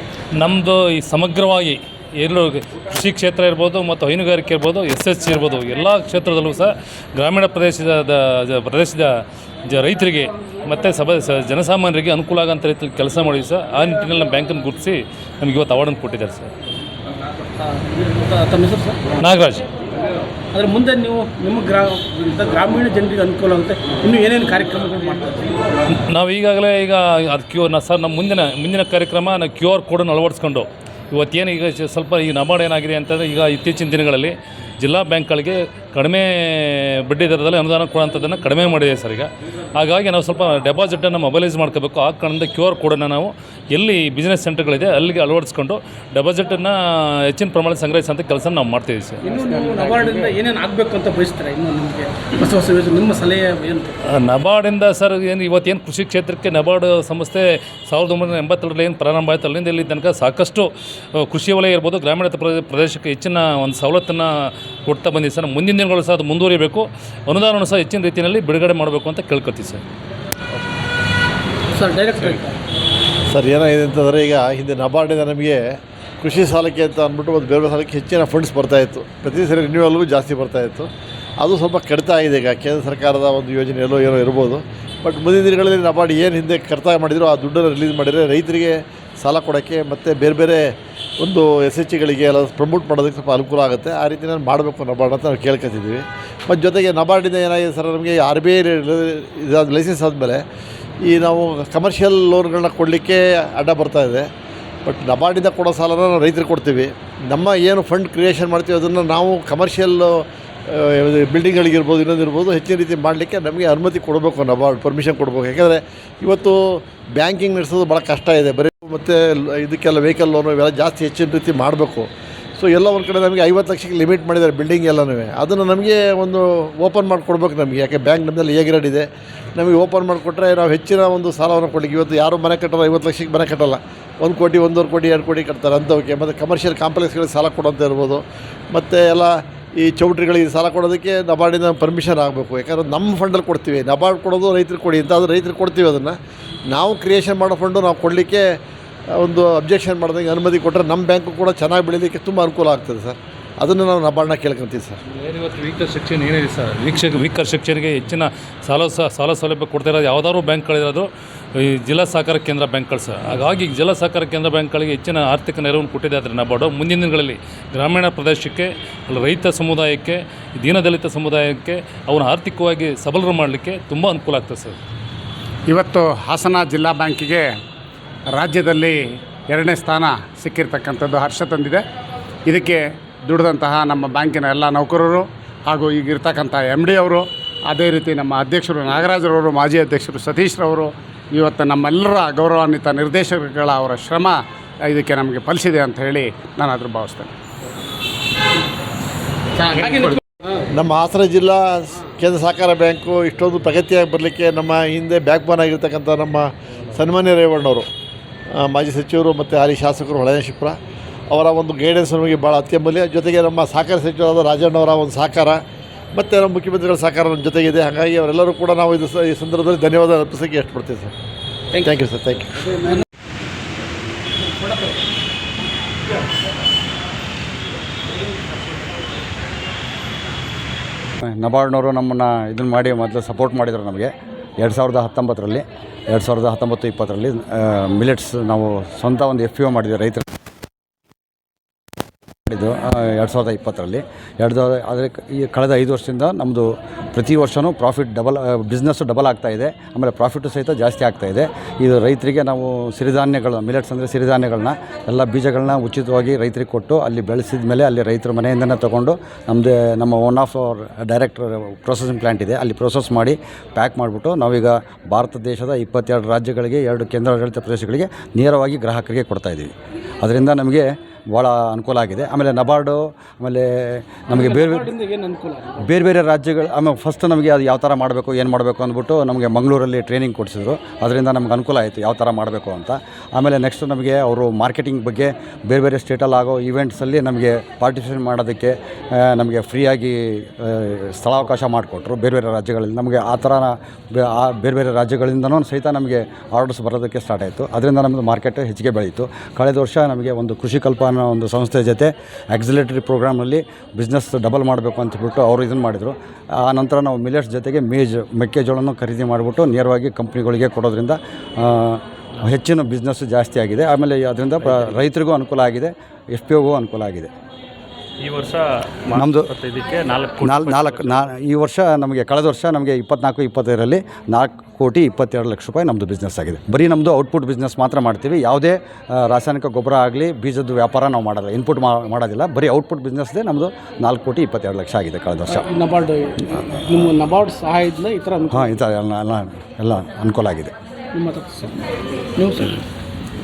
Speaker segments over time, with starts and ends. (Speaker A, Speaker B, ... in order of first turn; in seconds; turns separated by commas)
Speaker A: 0.4-16.5, Speaker B: 17.9-19.0, Speaker A: 19.2-19.7, Speaker B: 20.5-25.6, Speaker A: 25.9-49.4, Speaker B: 49.2-54.0, Speaker A: 54.0-69.8, Speaker B: 71.7-72.6, Speaker C: 73.3-75.6, Speaker C: 76.2-80.9, Speaker C: 81.4-90.6, Speaker C: 91.2-100.4, Speaker C: 101.0-104.3, Speaker C: 104.9-146.2, Speaker C: 146.7-148.4, Speaker C: 149.1-155.0, Speaker A: 155.1-174.8, Speaker D: 175.7-177.6, Speaker D: 178.3-181.8, Speaker D: 182.5-197.3, Speaker D: 199.7-200.2, Speaker C: 200.7-207.9, Speaker C: 208.5-210.8, Speaker C: 211.3-215.6, Speaker C: 216.2-221.1, Speaker C: 221.7-222.8, Speaker E: 231.2-240.2, Speaker E: 242.5-269.7, Speaker E: 270.2-274.9, Speaker B: 274.4-275.8, Speaker E: 275.8-317.3, Speaker F: 318.2-321.1, Speaker E: 319.1-319.5, Speaker E: 320.4-335.7, Speaker B: 335.5-338.6, Speaker E: 338.5-340.7, Speaker B: 341.1-341.8, Speaker B: 342.4-342.7